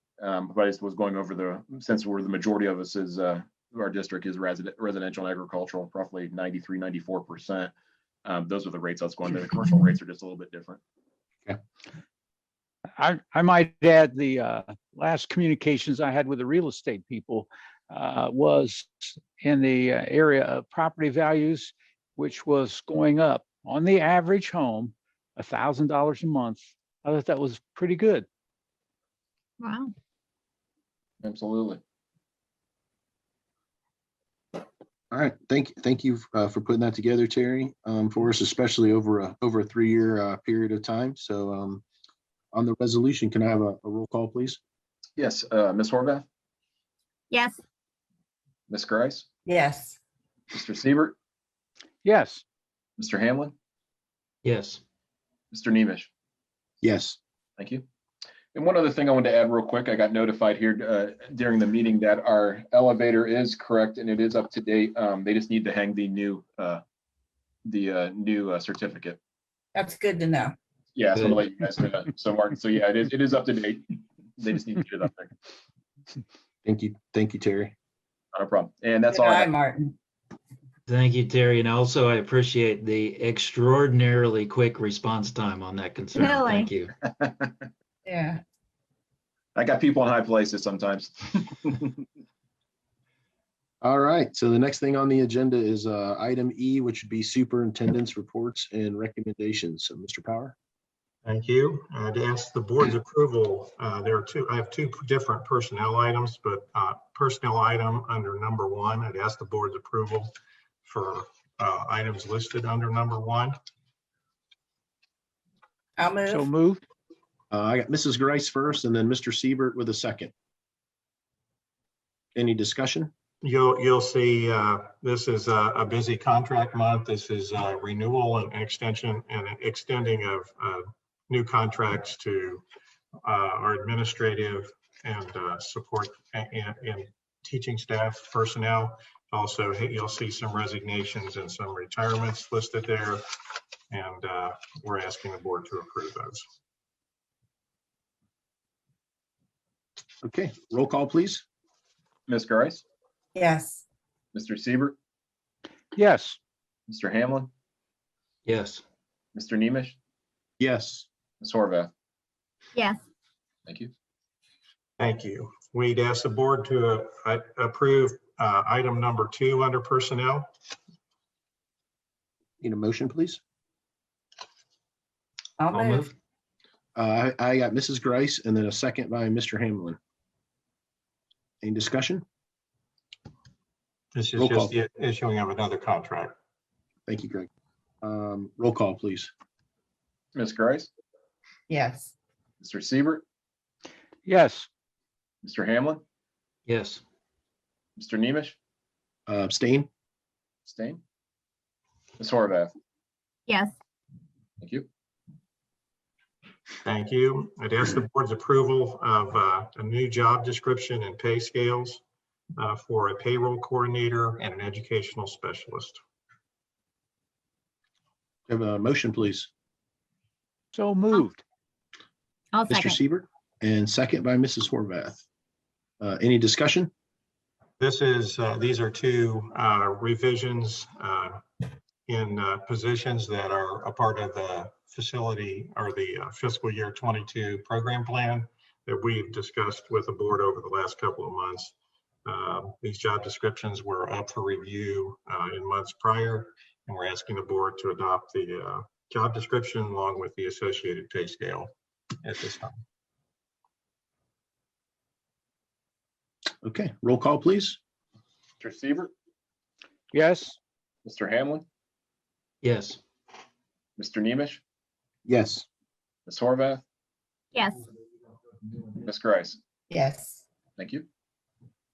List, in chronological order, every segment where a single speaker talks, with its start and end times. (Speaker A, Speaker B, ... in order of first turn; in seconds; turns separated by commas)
Speaker A: 0.2-7.7, Speaker A: 8.2-10.8, Speaker B: 13.0-28.2, Speaker C: 29.6-29.9, Speaker A: 31.2-31.8, Speaker D: 35.1-41.8, Speaker D: 42.5-44.6, Speaker A: 45.2-46.2, Speaker C: 47.3-47.6, Speaker A: 48.7-49.2, Speaker E: 49.5-50.0, Speaker A: 50.5-51.1, Speaker B: 52.0-52.4, Speaker A: 53.0-53.5, Speaker F: 54.4-54.8, Speaker A: 55.5-56.1, Speaker D: 56.8-57.2, Speaker A: 57.6-57.8, Speaker A: 58.5-66.8, Speaker A: 67.7-69.2, Speaker E: 69.7-70.5, Speaker A: 71.0-75.3, Speaker F: 71.1-71.4, Speaker D: 76.6-77.7, Speaker A: 78.3-79.5, Speaker E: 79.1-80.0, Speaker F: 80.9-86.9, Speaker C: 86.2-86.7, Speaker A: 87.0-87.5, Speaker E: 88.0-88.4, Speaker A: 89.5-92.0, Speaker D: 93.8-100.5, Speaker G: 101.2-110.3, Speaker G: 110.8-113.5, Speaker E: 116.0-116.5, Speaker B: 116.2-116.8, Speaker D: 117.5-120.3, Speaker D: 122.3-123.1, Speaker G: 123.4-132.6, Speaker G: 133.2-143.2, Speaker G: 143.9-146.4, Speaker D: 150.2-151.4, Speaker A: 152.3-152.8, Speaker E: 153.3-153.8, Speaker A: 154.3-154.9, Speaker B: 155.9-156.4, Speaker A: 156.9-157.5, Speaker F: 158.4-158.8, Speaker A: 159.3-160.0, Speaker D: 160.6-161.1, Speaker A: 161.4-161.9, Speaker A: 163.7-163.9, Speaker G: 165.0-170.5, Speaker D: 172.6-173.4, Speaker E: 175.6-176.1, Speaker F: 175.7-176.1, Speaker D: 176.9-180.0, Speaker D: 181.6-182.2, Speaker G: 184.1-186.3, Speaker D: 184.4-184.7, Speaker D: 187.1-187.5, Speaker D: 188.0-189.3, Speaker A: 190.3-190.9, Speaker E: 191.7-192.1, Speaker A: 192.6-193.2, Speaker B: 194.2-194.7, Speaker A: 195.4-196.0, Speaker F: 196.7-197.0, Speaker A: 198.0-198.6, Speaker D: 199.3-199.9, Speaker A: 200.6-201.0, Speaker A: 202.2-202.7, Speaker A: 204.6-204.9, Speaker G: 206.8-212.0, Speaker G: 212.6-216.0, Speaker D: 218.5-219.5, Speaker B: 220.7-221.4, Speaker C: 222.5-223.0, Speaker D: 222.7-225.2, Speaker D: 226.0-226.9, Speaker G: 227.8-231.4, Speaker G: 232.1-241.7, Speaker G: 242.2-251.7, Speaker G: 252.2-252.7, Speaker D: 256.6-257.8, Speaker A: 258.6-259.1, Speaker B: 260.1-260.6, Speaker A: 261.0-261.6, Speaker F: 262.6-263.0, Speaker A: 264.0-264.6, Speaker D: 265.2-265.6, Speaker A: 266.2-266.8, Speaker C: 267.5-267.8, Speaker A: 268.9-269.6, Speaker E: 269.9-270.4, Speaker A: 270.8-271.1